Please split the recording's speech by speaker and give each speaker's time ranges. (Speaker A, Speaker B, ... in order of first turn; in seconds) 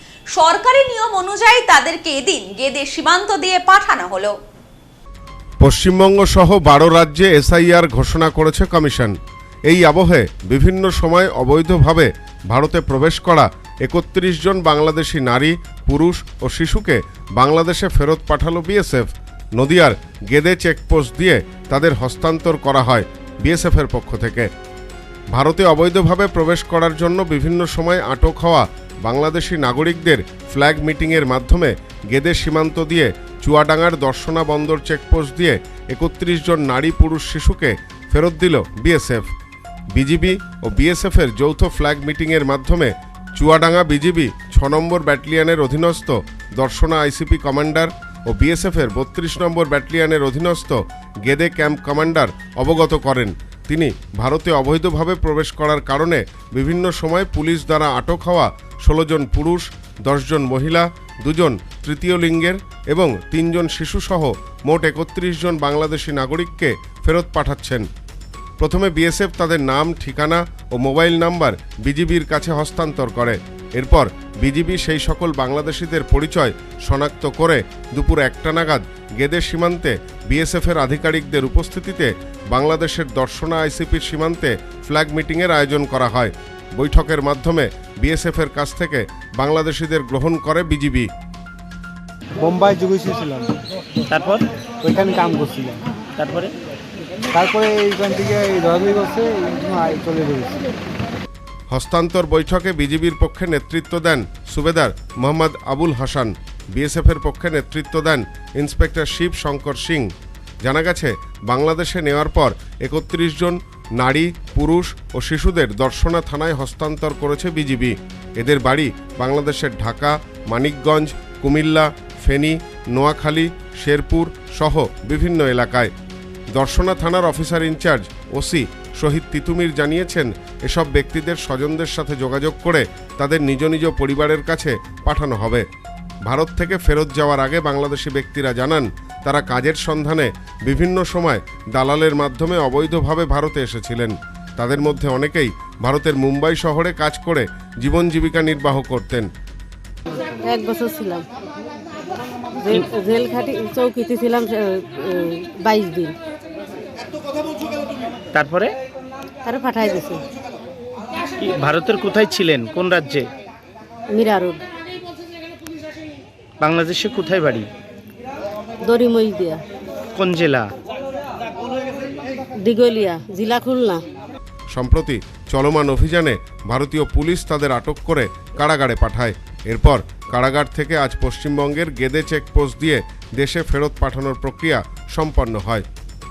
Speaker A: 0.3-4.3
Speaker B: 5.6-9.2, 9.7-24.5, 25.3-39.3, 39.9-67.9, 68.6-91.1, 101.7-110.1, 110.6-125.9, 126.5-135.7, 136.2-149.3, 174.7-185.9
Speaker C: 92.4-93.5, 94.8-95.8, 97.3-100.6
Speaker D: 94.1-94.4, 96.2-96.5, 158.3-158.7, 161.4-163.3, 166.6-167.7, 170.1-170.7
Speaker E: 150.4-151.2, 152.6-156.2, 159.4-160.2, 164.1-164.6, 168.8-169.6, 172.6-174.0